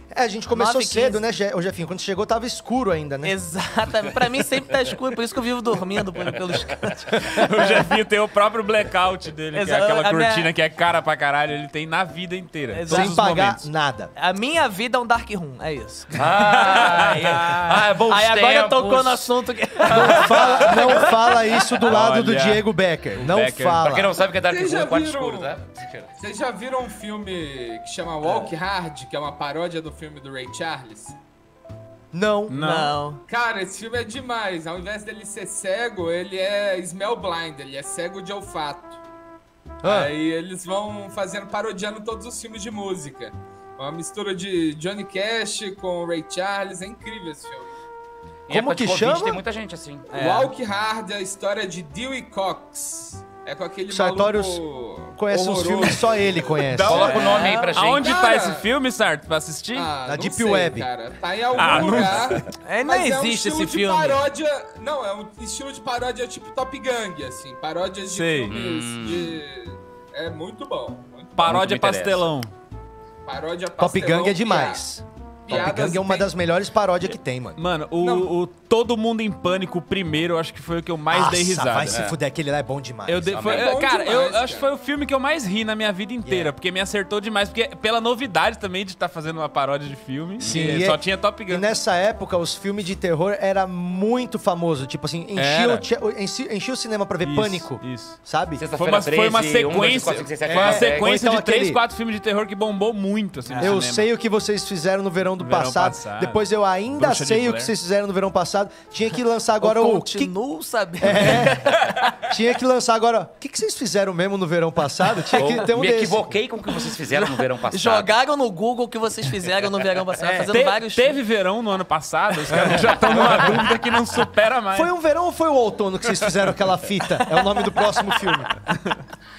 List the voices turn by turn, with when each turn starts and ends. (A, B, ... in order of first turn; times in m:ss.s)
0:00.1-0:03.3 A
0:00.5-0:01.2 B
0:03.2-0:07.7 B
0:07.1-0:13.7 C
0:09.5-0:10.5 B
0:12.7-0:13.2 B
0:12.9-0:14.1 A
0:14.2-0:16.2 B
0:16.1-0:19.3 D
0:16.3-0:17.8 C
0:18.1-0:21.4 B
0:19.9-0:21.0 D
0:19.9-0:24.2 A
0:21.8-0:23.9 C
0:23.8-0:26.1 D
0:24.4-0:25.6 E
0:26.2-0:31.2 E
0:28.2-0:28.5 B
0:32.1-0:32.5 A
0:32.5-0:33.0 C
0:32.5-0:33.2 B
0:33.3-0:39.0 E
0:39.8-0:40.1 A
0:39.8-0:47.7 E
0:48.5-0:50.1 D
0:48.5-0:49.4 A
0:50.1-0:50.5 B
0:50.1-0:56.6 E
0:53.9-0:54.6 A
0:55.2-0:57.2 A
0:56.7-0:58.1 D
0:56.9-0:59.9 C
0:56.9-0:57.8 B
0:57.9-0:58.7 E
0:59.7-1:11.5 E
1:00.0-1:00.9 A
1:01.5-1:02.5 C
1:02.5-1:04.2 B
1:08.1-1:08.6 C
1:08.5-1:09.4 D
1:11.4-1:12.5 C
1:11.4-1:12.3 D
1:13.2-1:14.8 E
1:13.8-1:17.6 A
1:15.4-1:16.3 E
1:17.6-1:22.0 C
1:18.0-1:18.3 E
1:21.1-1:23.5 A
1:21.9-1:22.2 D
1:23.0-1:31.6 C
1:23.3-1:23.8 D
1:23.4-1:24.7 E
1:26.2-1:26.5 A
1:30.4-1:30.8 D
1:30.4-1:38.6 A
1:35.4-1:35.8 C
1:37.2-1:38.2 C
1:38.6-1:41.1 D
1:38.7-1:44.1 C
1:40.4-1:41.8 A
1:43.5-1:43.8 B
1:43.6-1:50.3 A
1:45.4-1:46.4 C
1:46.9-1:47.7 C
1:49.6-1:52.0 B
1:51.0-1:56.4 A
1:55.3-1:58.1 D
1:57.2-2:01.2 B
2:00.2-2:00.5 A
2:00.5-2:04.9 C
2:02.8-2:03.6 A
2:04.7-2:08.6 A